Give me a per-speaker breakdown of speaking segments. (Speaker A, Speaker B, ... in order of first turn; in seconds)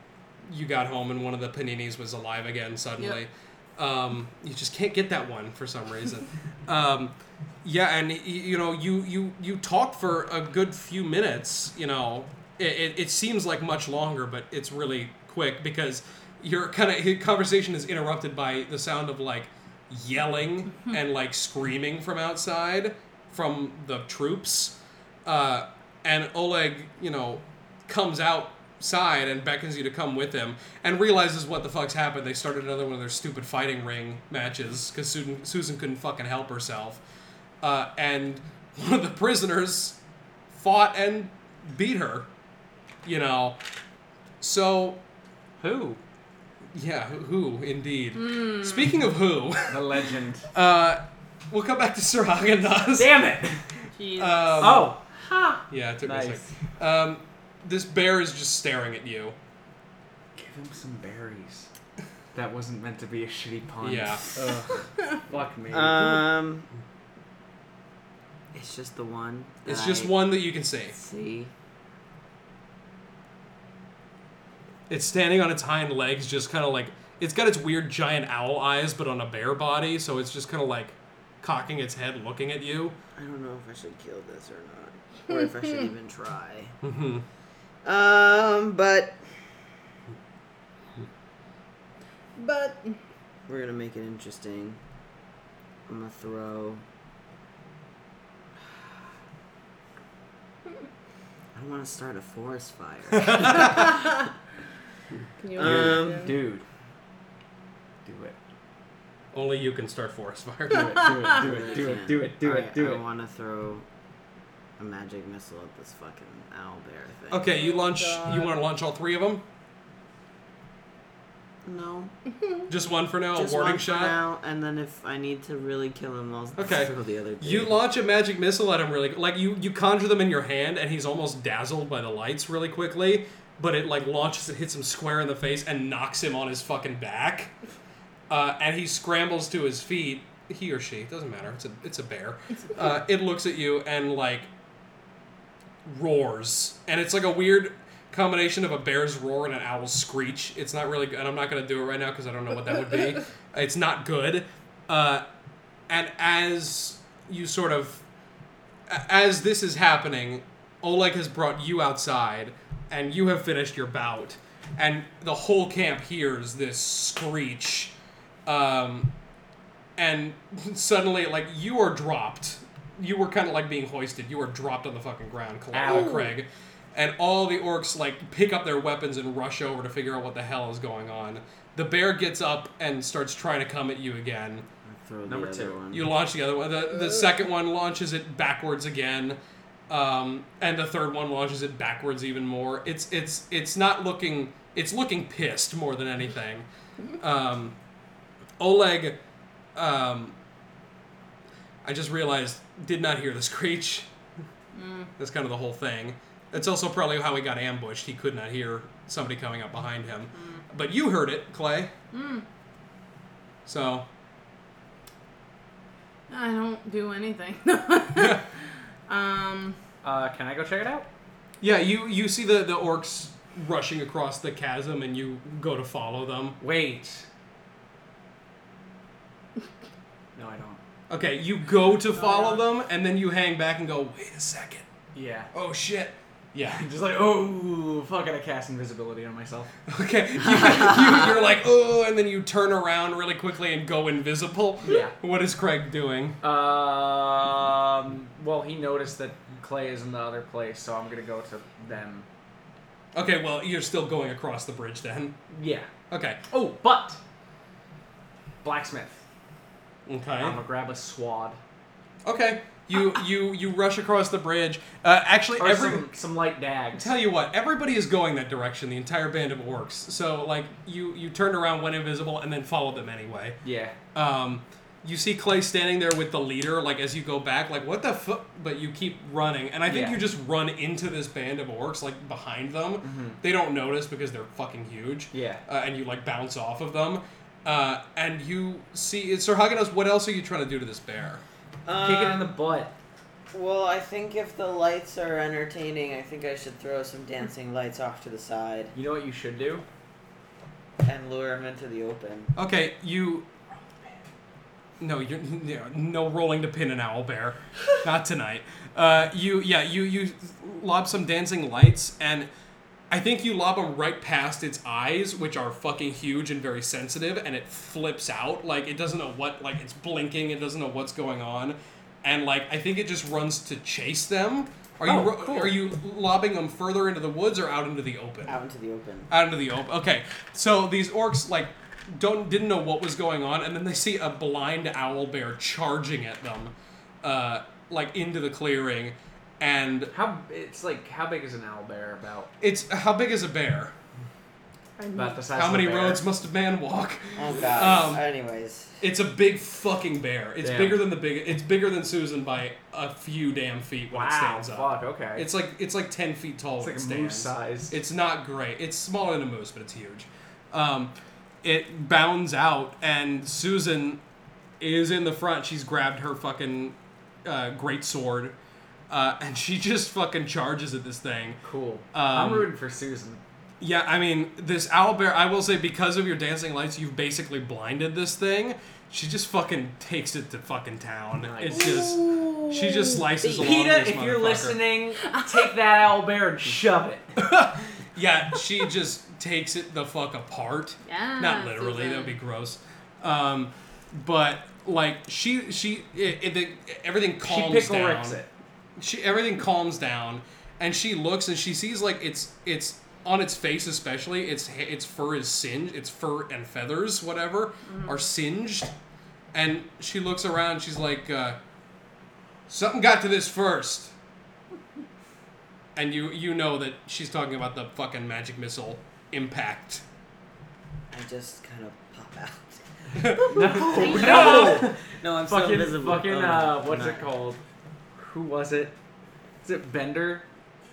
Speaker A: 0.5-37.0, 37.6-40.0, 40.5-42.3, 43.0-43.6, 44.4-45.0, 46.7-50.0, 50.5-53.1, 54.1-54.9, 55.7-59.4, 63.8-64.6, 69.7-71.0, 74.9-82.9, 86.8-87.2, 103.1-103.7, 109.3-111.1, 117.3-119.4, 122.7-124.2, 126.6-137.5, 138.3-144.5, 145.8-155.2, 155.9-158.0, 158.9-167.9, 168.4-169.1, 170.0-184.7, 185.9-196.7, 197.2-197.8, 198.6-199.2, 199.7-200.3, 201.8-204.1, 205.2-211.9, 213.7-214.1, 218.2-218.4, 221.6-226.6, 231.1-234.8, 235.5-236.8, 239.9-246.4, 253.1-255.4, 256.1-256.4, 260.1-260.6, 262.2-266.1, 266.9-273.6, 274.1-291.4, 302.5-303.5, 305.0-312.5, 313.1-328.6, 329.3-340.1, 342.6-343.9, 345.5-348.2, 349.0-364.2, 364.8-368.6, 369.1-371.6, 372.1-372.7, 373.8-384.8, 387.4-398.4, 399.0-408.9, 409.5-411.6, 412.7-414.1, 415.9-420.0, 423.2-423.6, 424.2-424.7
Speaker B: 45.6-46.0, 49.7-50.5, 53.0-53.6, 54.6-56.5, 60.4-61.7, 62.3-66.2, 105.6-106.6, 108.0-108.3, 110.7-113.0, 175.7-176.3, 185.2-185.8, 220.0-221.1, 226.6-227.2, 230.3-230.8, 235.1-235.5, 236.7-239.7, 244.8-245.1, 246.4-252.2, 255.5-255.9, 256.5-257.2, 258.6-259.2, 260.4-261.6, 265.6-267.1, 273.6-273.9, 279.9-280.2, 283.0-283.4, 285.3-285.6, 292.0-292.9, 298.9-299.8, 325.1-325.8, 340.1-342.5, 345.1-346.2, 350.6-351.0, 354.1-355.5, 356.8-357.9, 371.6-373.4, 381.4-382.0, 383.5-387.4, 397.4-398.5, 423.4-427.6, 428.1-429.0, 429.6-430.4
Speaker C: 48.1-48.9, 53.9-54.8, 85.3-85.8, 92.4-93.0, 105.4-106.3, 117.5-118.5, 204.7-205.1, 210.3-210.6, 212.1-212.4, 216.3-218.5, 219.1-219.8, 232.1-232.6, 345.0-345.4, 382.0-382.5, 385.2-385.7, 391.0-392.4, 407.9-408.2, 423.5-424.8
Speaker D: 65.7-66.7, 68.5-70.1, 70.9-71.5, 83.2-86.7, 87.8-89.2, 93.5-94.8, 95.9-96.8, 101.5-104.0, 105.5-106.3, 111.3-113.8, 114.8-117.5, 121.6-122.1, 123.3-127.8, 184.8-186.1, 291.8-292.5, 293.5-298.9, 301.0-302.5, 328.4-329.3, 347.4-349.0, 421.1-427.3